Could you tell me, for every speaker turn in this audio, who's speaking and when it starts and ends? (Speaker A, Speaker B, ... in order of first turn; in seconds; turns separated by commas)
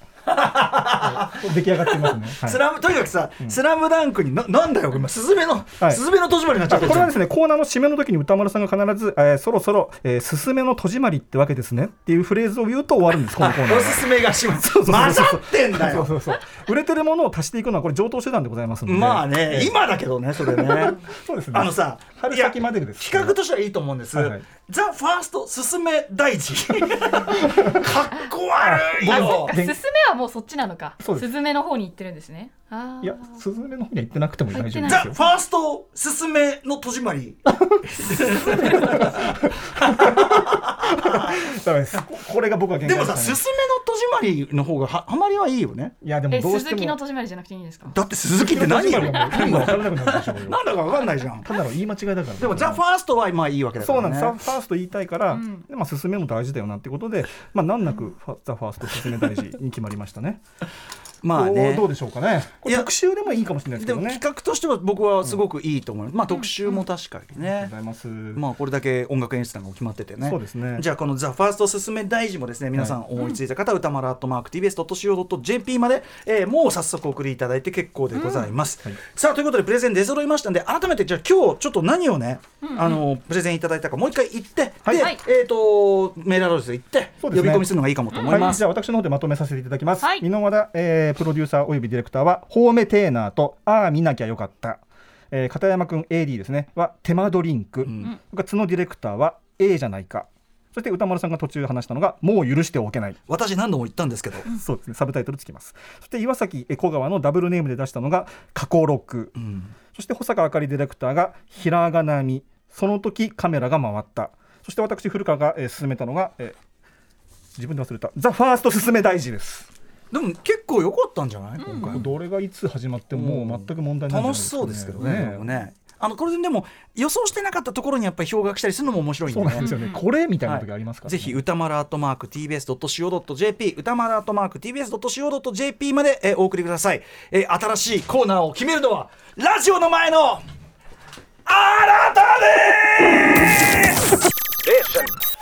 Speaker A: 0.3-7.1, Speaker B: 1.0-2.6, Speaker B: 6.6-19.8, Speaker A: 13.4-16.1, Speaker A: 18.9-21.0, Speaker B: 20.3-23.4, Speaker A: 21.5-29.6, Speaker B: 24.1-24.4, Speaker B: 28.6-29.8, Speaker C: 29.1-33.4, Speaker B: 31.0-31.3, Speaker B: 33.0-35.1, Speaker C: 34.5-35.4, Speaker A: 34.8-41.4, Speaker B: 37.6-43.4, Speaker A: 42.8-45.9, Speaker B: 46.0-47.0, Speaker C: 46.3-47.9, Speaker A: 47.9-51.5, Speaker B: 48.4-50.6, Speaker C: 49.0-49.9, Speaker B: 51.4-52.8, Speaker A: 52.4-54.4, Speaker B: 53.8-60.4, Speaker C: 55.3-55.6, Speaker A: 61.2-61.9, Speaker B: 61.3-64.2, Speaker A: 62.6-62.9, Speaker A: 63.7-67.7, Speaker B: 67.4-68.4, Speaker A: 68.3-88.6, Speaker B: 70.2-70.8, Speaker C: 78.1-78.5, Speaker C: 82.6-83.0, Speaker B: 84.8-85.1, Speaker C: 85.0-85.2, Speaker B: 87.2-103.2, Speaker C: 88.1-88.5, Speaker C: 90.0-90.2, Speaker A: 97.8-98.1, Speaker A: 103.3-104.5, Speaker B: 104.5-109.3, Speaker A: 109.3-109.7, Speaker B: 109.9-116.6, Speaker B: 117.5-119.7, Speaker A: 120.1-122.0, Speaker C: 121.6-122.0, Speaker B: 121.9-125.5, Speaker A: 123.1-129.7, Speaker B: 129.3-131.4, Speaker C: 129.6-130.0, Speaker A: 130.4-140.4, Speaker A: 141.4-144.0, Speaker A: 144.8-145.1